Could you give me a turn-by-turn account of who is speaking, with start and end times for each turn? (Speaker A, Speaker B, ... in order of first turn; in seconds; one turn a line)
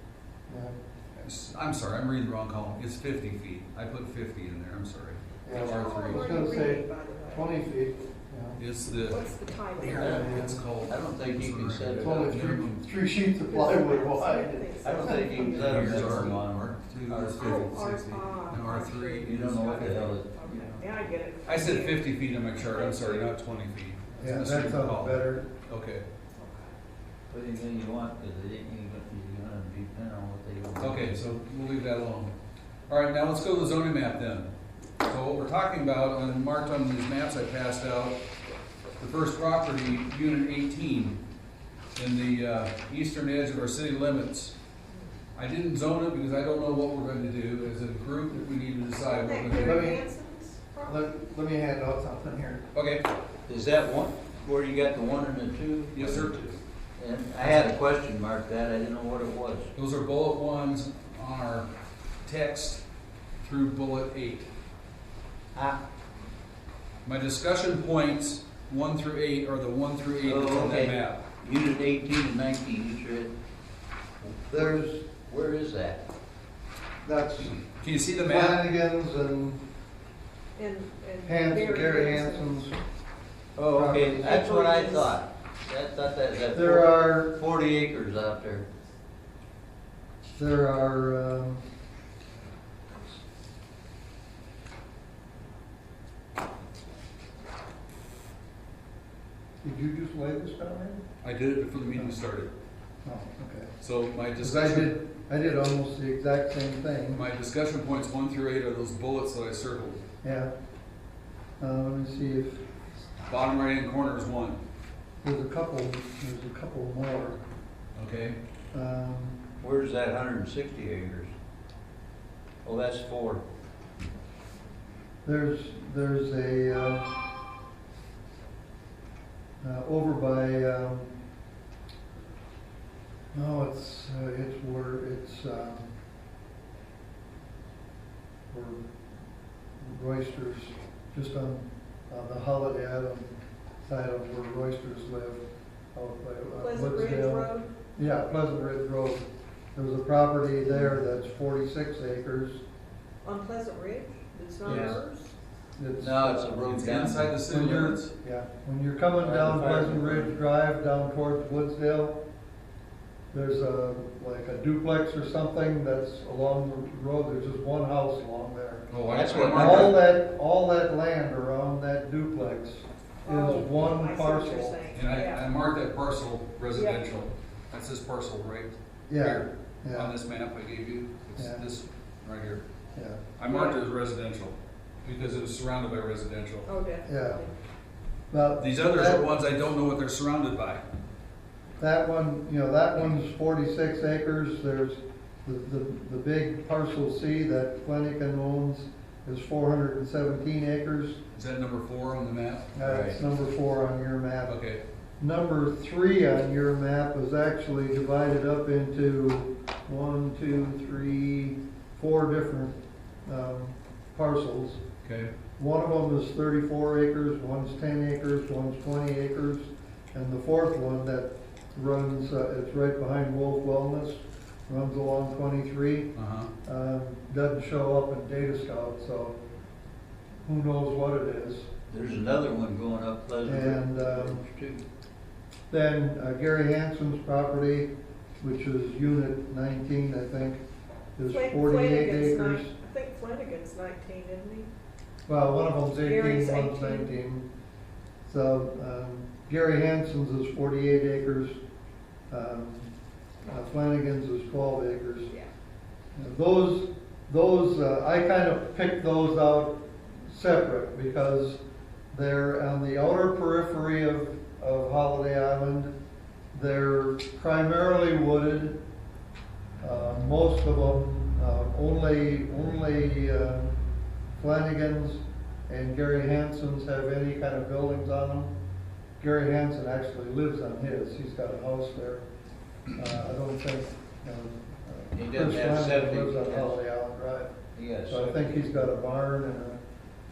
Speaker A: 0.5-0.8
Speaker B: 1.2-6.3
Speaker A: 5.4-8.6
Speaker C: 5.5-7.6
Speaker B: 8.6-9.2
Speaker C: 9.0-10.5
Speaker B: 9.8-12.8
Speaker D: 9.9-10.3
Speaker A: 10.0-10.6
Speaker D: 10.8-12.4
Speaker A: 12.0-15.2
Speaker C: 13.5-16.4
Speaker D: 14.8-17.7
Speaker B: 15.5-20.2
Speaker C: 17.4-23.3
Speaker D: 19.2-20.8
Speaker B: 21.5-26.1
Speaker A: 24.2-25.5
Speaker C: 26.4-26.8
Speaker D: 27.3-31.2
Speaker B: 30.8-32.3
Speaker B: 32.9-34.5
Speaker B: 35.0-38.2
Speaker B: 39.0-41.2
Speaker B: 42.0-44.5
Speaker B: 45.4-49.9
Speaker C: 49.0-51.0
Speaker A: 49.5-50.0
Speaker A: 50.8-52.6
Speaker B: 52.7-53.0
Speaker D: 53.5-59.7
Speaker B: 55.9-56.5
Speaker B: 59.8-61.7
Speaker B: 62.2-62.8
Speaker B: 63.4-64.5
Speaker D: 65.5-65.8
Speaker B: 67.0-71.2
Speaker D: 70.2-73.3
Speaker A: 74.5-75.1
Speaker D: 74.6-76.0
Speaker A: 77.0-77.6
Speaker B: 77.6-78.6
Speaker A: 78.3-79.6
Speaker C: 80.6-82.6
Speaker A: 81.2-82.8
Speaker D: 83.6-88.7
Speaker A: 83.7-84.3
Speaker C: 84.1-85.2
Speaker A: 86.5-87.4
Speaker A: 90.4-91.7
Speaker A: 99.6-101.0
Speaker B: 101.2-102.5
Speaker A: 103.0-103.7
Speaker B: 103.8-104.9
Speaker A: 104.4-107.2
Speaker B: 107.1-110.0
Speaker A: 110.2-110.5
Speaker A: 111.6-112.7
Speaker B: 113.3-114.6
Speaker A: 115.2-117.4
Speaker B: 118.0-118.4
Speaker A: 118.7-119.4
Speaker D: 119.6-121.3
Speaker D: 122.6-123.4
Speaker A: 125.2-127.2
Speaker A: 129.6-131.1
Speaker A: 133.3-135.9
Speaker A: 138.5-138.9
Speaker A: 139.8-143.3
Speaker A: 143.8-145.4
Speaker A: 145.9-152.6
Speaker C: 146.6-147.7
Speaker C: 153.2-155.3
Speaker D: 154.7-155.0
Speaker A: 154.7-154.9
Speaker A: 155.8-156.9
Speaker D: 156.0-157.8
Speaker B: 156.7-158.1
Speaker A: 157.5-162.2
Speaker D: 159.2-160.4
Speaker A: 163.3-174.8
Speaker B: 168.9-170.0
Speaker D: 169.1-169.9
Speaker C: 173.2-175.5
Speaker B: 174.9-182.6
Speaker C: 176.7-177.0
Speaker A: 179.1-180.2
Speaker A: 181.4-181.7
Speaker A: 182.9-183.2
Speaker B: 183.4-186.7
Speaker C: 183.5-183.8
Speaker C: 186.7-187.5
Speaker A: 187.1-187.4
Speaker A: 188.3-189.3
Speaker B: 188.6-190.8
Speaker A: 191.8-201.2
Speaker B: 201.3-202.7
Speaker A: 202.7-204.6
Speaker D: 202.8-203.2
Speaker B: 204.5-204.8
Speaker A: 205.2-214.8
Speaker B: 215.0-215.3
Speaker A: 215.6-226.1
Speaker B: 226.2-226.5
Speaker A: 226.7-229.4
Speaker A: 230.4-231.7
Speaker D: 231.9-234.8
Speaker A: 233.4-234.4
Speaker A: 235.7-240.6
Speaker A: 241.2-242.7
Speaker C: 241.3-244.7
Speaker A: 245.3-247.5
Speaker C: 246.0-247.1
Speaker A: 248.3-251.6
Speaker A: 252.3-252.9
Speaker A: 253.4-255.3
Speaker A: 256.2-261.6
Speaker A: 262.1-265.9
Speaker A: 266.5-268.8
Speaker A: 269.8-273.7
Speaker A: 274.4-278.5
Speaker A: 279.2-282.2
Speaker A: 282.9-287.5
Speaker D: 285.1-286.8
Speaker D: 287.8-288.7
Speaker A: 288.0-289.8